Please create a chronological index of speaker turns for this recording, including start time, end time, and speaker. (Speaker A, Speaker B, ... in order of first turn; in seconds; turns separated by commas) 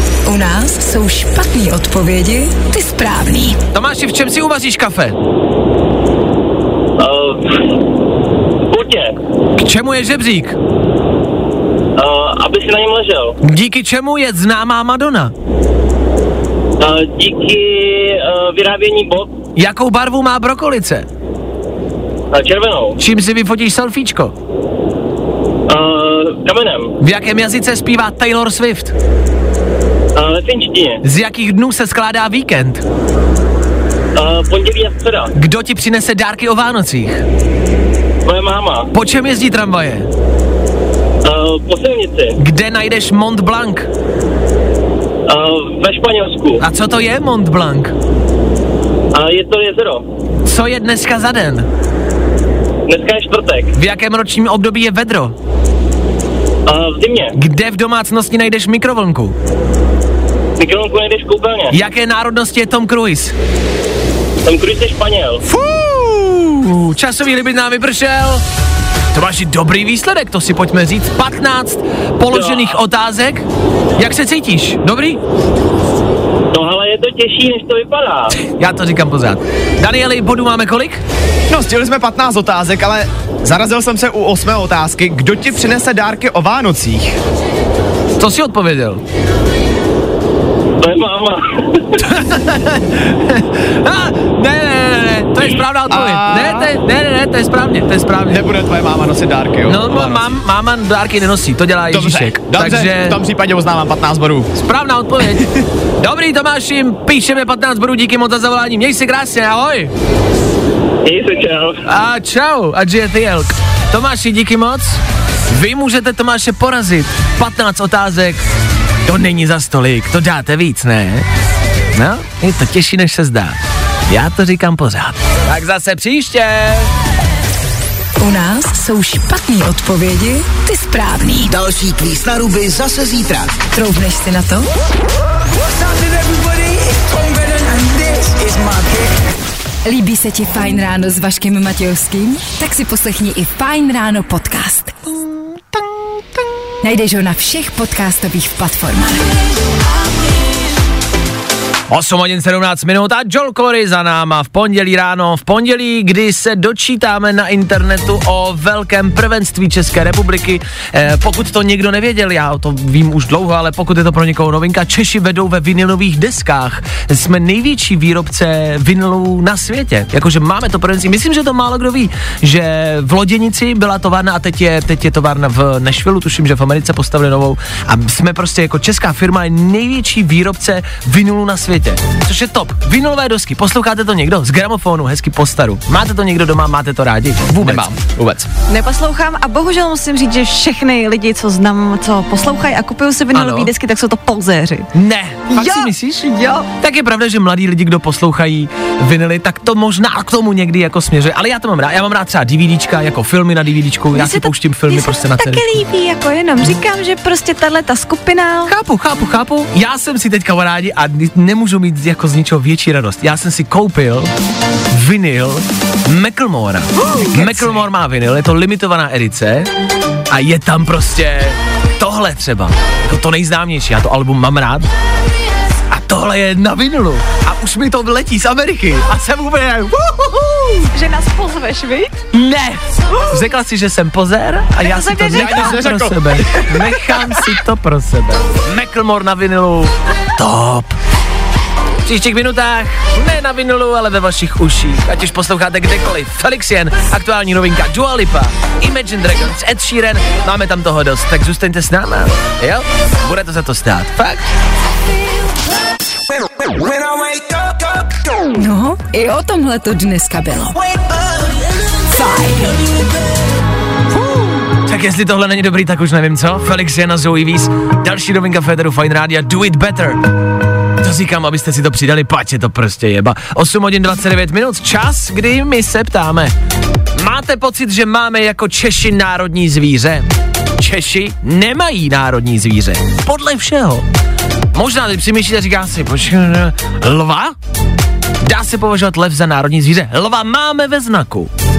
Speaker A: 0.2-3.6, Speaker B: 3.7-5.2, Speaker C: 7.0-7.7, Speaker C: 8.7-9.2, Speaker B: 9.6-10.6, Speaker C: 12.0-13.3, Speaker B: 13.4-15.3, Speaker C: 16.8-19.3, Speaker B: 19.6-21.1, Speaker C: 22.3-23.0, Speaker B: 23.0-24.3, Speaker C: 25.7-26.9, Speaker B: 27.0-28.9, Speaker C: 30.1-31.0, Speaker B: 31.0-32.8, Speaker C: 34.1-35.3, Speaker B: 35.3-37.2, Speaker C: 38.2-38.9, Speaker B: 38.9-40.1, Speaker C: 41.2-42.3, Speaker B: 42.4-43.9, Speaker C: 45.3-46.6, Speaker B: 46.6-47.9, Speaker C: 49.1-50.0, Speaker B: 50.4-51.7, Speaker C: 52.9-53.7, Speaker B: 53.7-55.3, Speaker C: 56.6-57.3, Speaker B: 57.4-59.3, Speaker C: 60.6-61.7, Speaker B: 61.7-63.3, Speaker C: 64.4-65.4, Speaker B: 65.5-68.4, Speaker B: 69.1-73.4, Speaker C: 72.3-72.8, Speaker B: 74.0-75.2, Speaker C: 76.5-78.3, Speaker B: 78.4-81.0, Speaker D: 81.5-87.2, Speaker B: 88.2-89.0, Speaker C: 90.8-92.0, Speaker B: 92.0-98.4, Speaker D: 95.9-96.8, Speaker D: 98.3-100.4, Speaker B: 99.7-103.2, Speaker D: 101.9-104.5, Speaker B: 104.5-109.9, Speaker C: 111.0-111.8, Speaker B: 111.8-118.4, Speaker B: 119.0-121.2, Speaker B: 121.9-123.6, Speaker B: 124.1-126.9, Speaker A: 128.2-131.5, Speaker E: 131.5-133.5, Speaker A: 133.7-134.7, Speaker E: 135.5-139.2, Speaker A: 139.8-144.9, Speaker A: 146.8-149.2, Speaker B: 151.9-187.9, Speaker D: 187.6-188.5, Speaker F: 188.7-194.9, Speaker B: 193.3-193.7, Speaker B: 194.9-205.7, Speaker F: 195.5-196.7, Speaker F: 204.1-208.7, Speaker B: 208.7-214.3, Speaker B: 214.9-219.7, Speaker F: 217.0-217.8, Speaker B: 220.3-224.9, Speaker B: 225.9-230.9, Speaker F: 230.9-232.2, Speaker B: 232.3-240.9, Speaker F: 234.8-235.8, Speaker D: 235.3-236.5, Speaker B: 242.0-254.4, Speaker E: 256.4-258.1, Speaker A: 258.6-260.8, Speaker A: 262.1-262.8, Speaker B: 264.8-270.2, Speaker B: 271.0-276.5, Speaker B: 277.2-280.2, Speaker B: 280.8-284.1, Speaker B: 284.7-287.5, Speaker B: 288.4-291.5